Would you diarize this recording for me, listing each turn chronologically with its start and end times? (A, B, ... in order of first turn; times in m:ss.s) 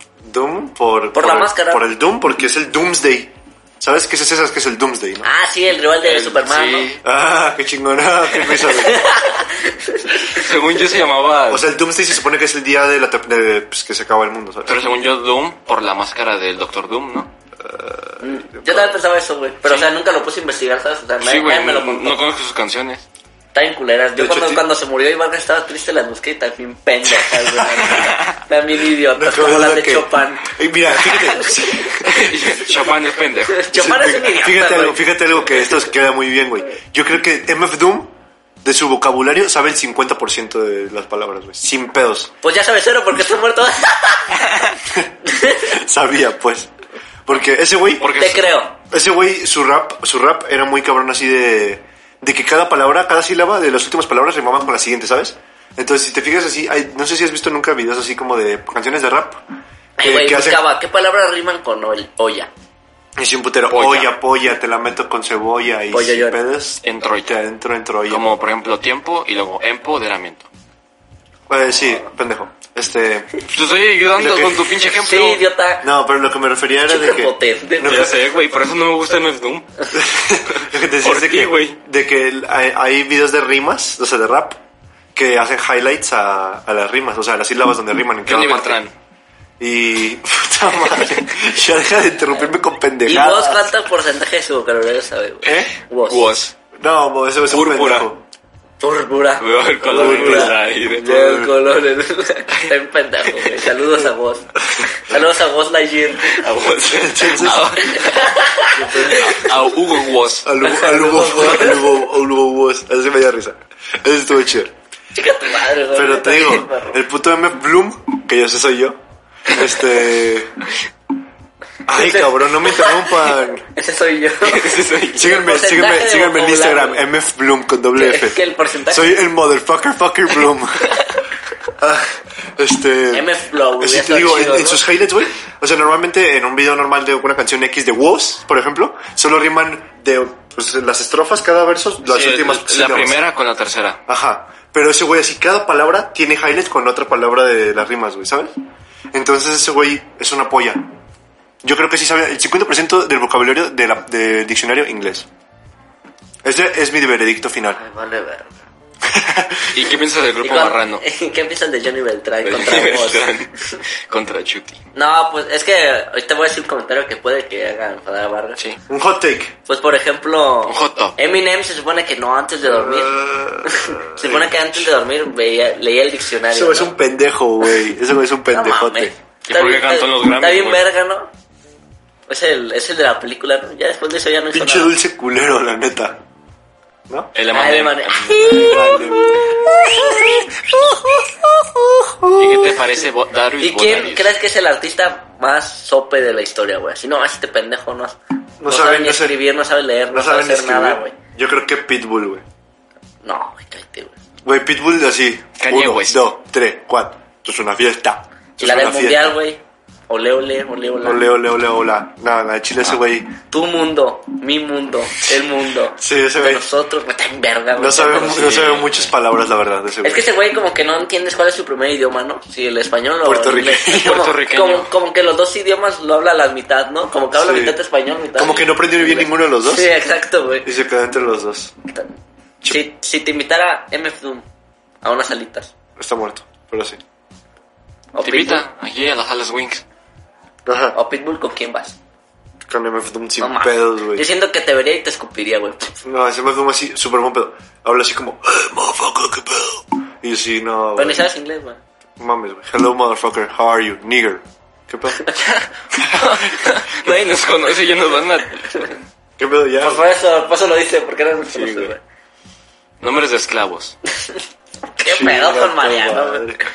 0:00.2-0:05.3 A
0:01.1-0:01.9 B
0:05.2-0:07.0 B
0:06.0-0:07.0 C
0:07.0-0:09.2 A
0:08.6-0:10.5 B
0:10.3-0:11.7 C
0:11.5-0:14.9 A
0:14.7-0:17.3 C
0:17.6-0:19.0 A
0:18.2-0:22.2 B
0:21.2-0:23.0 C
0:23.5-0:31.6 B
0:24.2-0:24.6 A
0:27.2-0:28.1 A
0:27.9-0:28.3 C
0:29.1-0:32.5 A
0:32.0-0:33.7 C
0:33.5-0:35.1 B
0:33.7-0:38.1 A
0:38.6-0:42.3 A
0:42.4-0:44.7 B
0:44.9-0:46.7 A
0:45.2-0:45.8 B
0:47.3-0:48.1 A
0:48.0-0:48.6 C
0:48.2-0:48.8 B
0:48.9-0:59.4 A
1:00.0-1:02.5 B
1:00.0-1:00.6 A
1:03.2-1:08.2 A
1:03.7-1:04.1 C
1:05.9-1:06.4 B
1:06.8-1:07.3 C
1:08.1-1:10.5 C
1:11.5-1:13.4 A
1:13.5-1:15.4 C
1:14.1-1:14.7 A
1:14.9-1:15.9 B
1:15.8-1:18.1 A
1:16.9-1:18.2 B
1:17.8-1:19.9 C
1:19.9-1:24.6 A
1:20.7-1:21.8 C
1:25.2-1:28.8 A
1:28.3-1:28.9 C
1:29.6-1:33.7 A
1:30.9-1:31.2 C
1:33.1-1:36.3 B
1:35.4-1:36.5 C
1:36.8-1:38.2 A
1:37.5-1:38.1 C
1:38.8-1:46.5 B
1:39.4-1:41.1 C
1:39.9-1:41.6 A
1:46.3-1:48.1 C
1:46.9-1:47.7 A
1:47.4-1:49.6 B
1:48.7-1:49.6 A
1:49.1-1:50.5 C
1:50.4-1:54.7 A
1:50.6-1:52.0 B
1:55.1-1:57.0 B
1:55.9-2:00.5 A
2:01.9-2:03.6 A
2:02.0-2:07.1 B
2:04.4-2:05.4 C
2:05.1-2:08.4 A
2:07.9-2:09.2 B
2:08.9-2:11.0 A
2:11.8-2:23.2 A
2:13.1-2:14.8 B
2:22.0-2:24.0 C
2:24.1-2:28.6 A
2:29.1-2:30.9 A
2:31.6-2:35.3 A
2:36.4-2:37.8 A
2:37.8-2:38.5 B
2:39.0-2:39.9 A
2:39.7-2:41.0 C
2:40.4-2:43.8 B
2:42.4-2:43.5 C
2:44.1-2:44.8 C
2:45.0-2:48.6 B
2:48.9-2:49.6 A
2:49.7-2:57.0 B
2:50.6-2:51.2 C
2:52.6-2:54.9 A
2:56.5-2:59.1 A
2:58.5-3:01.3 B
2:59.5-3:00.8 C
3:02.3-3:05.0 B
3:04.5-3:06.2 A
3:07.4-3:09.1 C
3:07.5-3:10.5 B
3:08.5-3:12.8 A
3:12.3-3:14.3 C
3:13.6-3:21.2 B
3:18.6-3:19.4 A
3:20.1-3:22.4 A
3:23.2-3:24.1 B
3:24.4-3:29.4 A
3:25.6-3:26.2 C
3:28.6-3:31.3 B
3:31.0-3:33.3 A
3:33.5-3:38.7 B
3:36.0-3:36.6 A
3:37.8-3:40.3 A
3:38.3-3:39.1 C
3:40.0-3:50.7 B
3:43.2-3:44.3 A
3:43.9-3:44.9 C
3:47.3-3:47.8 A
3:48.4-3:49.9 A
3:50.6-3:51.7 A
3:52.6-3:54.4 B
3:55.0-3:55.7 B
3:56.0-3:57.0 A
3:58.1-3:58.6 B
3:58.2-3:59.8 C
4:00.7-4:01.0 A
4:00.9-4:02.0 B
4:02.7-4:04.3 A
4:03.4-4:06.0 B
4:06.0-4:11.2 A
4:11.0-4:11.8 B
4:12.2-4:15.2 A
4:16.0-4:18.9 C
4:19.4-4:20.0 A
4:19.8-4:22.0 B
4:21.5-4:21.9 C
4:23.0-4:24.0 C
4:25.0-4:26.7 B
4:25.1-4:26.6 A